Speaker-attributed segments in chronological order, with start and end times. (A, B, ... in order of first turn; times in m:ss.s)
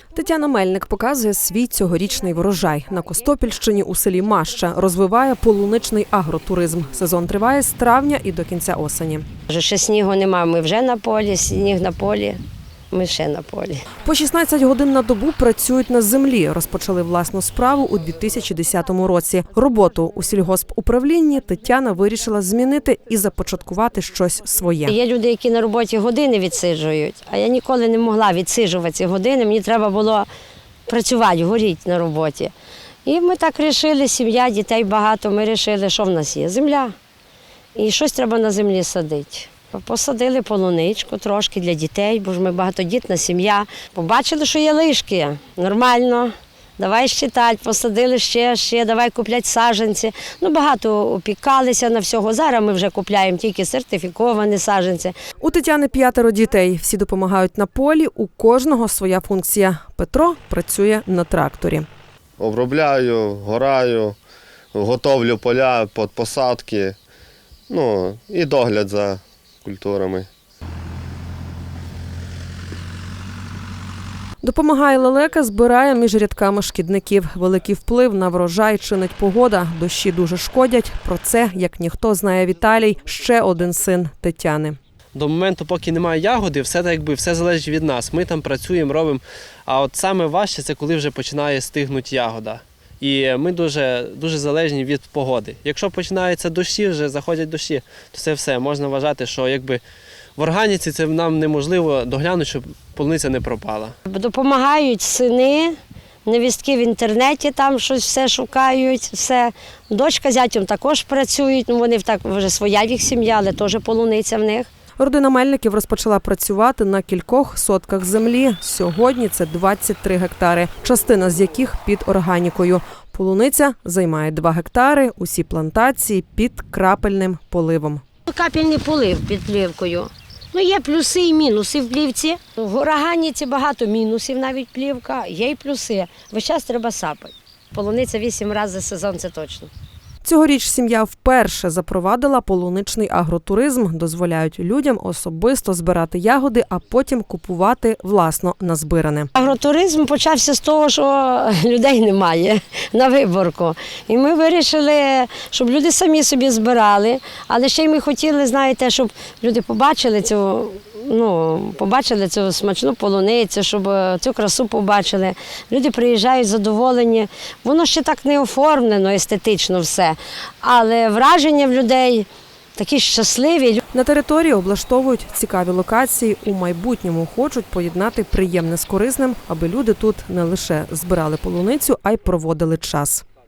0:00.1-0:09.2 A
0:09.5-0:12.4 B
0:12.9-0:13.8 B
0:14.0-0:24.9 A
0:24.8-0:30.3 B
0:30.9-0:32.5 B
0:33.0-0:36.9 B
0:37.7-0:55.1 B
0:55.4-1:01.9 A
1:02.4-1:04.2 C
1:04.7-1:07.0 C
1:07.7-1:10.3 C
1:14.4-1:24.8 A
1:25.1-1:39.8 D
1:40.4-1:43.9 D
1:44.1-1:54.7 B
1:55.0-2:08.0 A
2:08.2-2:19.7 B
2:20.2-2:29.3 A
2:29.3-2:53.8 B
2:53.9-3:03.2 A